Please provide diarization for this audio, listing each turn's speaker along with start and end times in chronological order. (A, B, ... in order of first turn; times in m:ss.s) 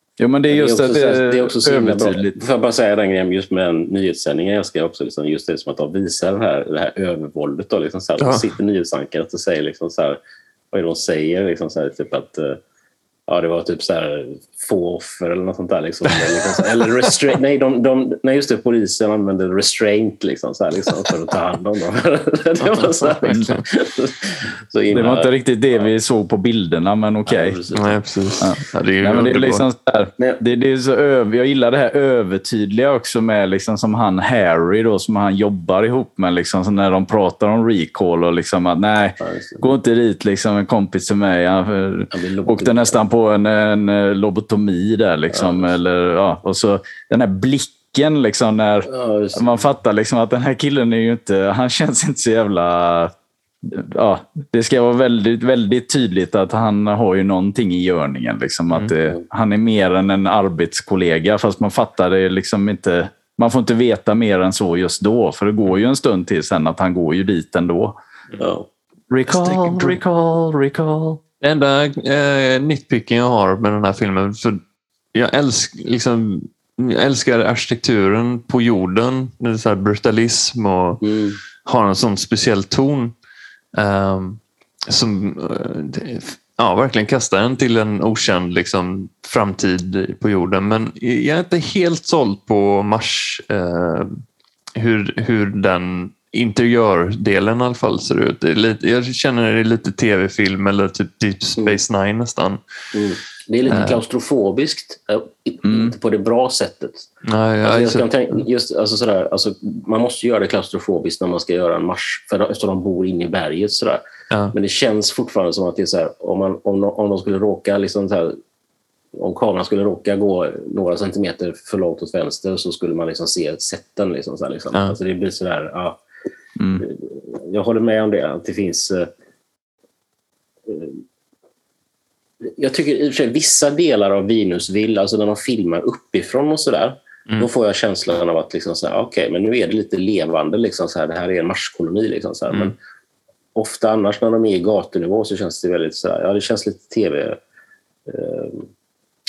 0:00.2-0:02.4 A
0:00.5-0:10.2 B
0:08.2-0:08.4 C
0:10.7-0:12.6 B
0:13.3-0:25.9 B
0:23.2-0:23.6 C
0:24.9-0:27.6 A
0:27.2-0:28.0 B
0:27.7-0:29.6 C
0:28.4-0:53.1 A
0:39.2-0:39.6 B
0:42.1-0:43.0 B
0:45.3-0:45.7 B
0:48.9-0:49.6 B
0:53.6-1:07.9 A
1:08.4-1:08.7 B
1:09.1-1:11.2 A
1:09.2-1:10.0 C
1:11.4-1:14.6 C
1:15.1-1:21.0 C
1:21.0-1:21.4 B
1:21.6-1:23.1 C
1:23.7-1:34.2 C
1:34.8-1:42.6 C
1:42.9-1:47.1 B
1:43.6-1:44.0 C
1:45.6-1:45.9 A
1:47.2-1:48.1 C
1:47.6-1:54.0 B
1:54.5-1:58.4 B
1:59.2-2:06.0 B
2:06.6-2:06.8 A
2:06.8-2:09.1 B
2:10.7-2:11.0 B
2:12.6-2:22.7 B
2:23.5-2:27.4 B
2:28.1-2:28.7 B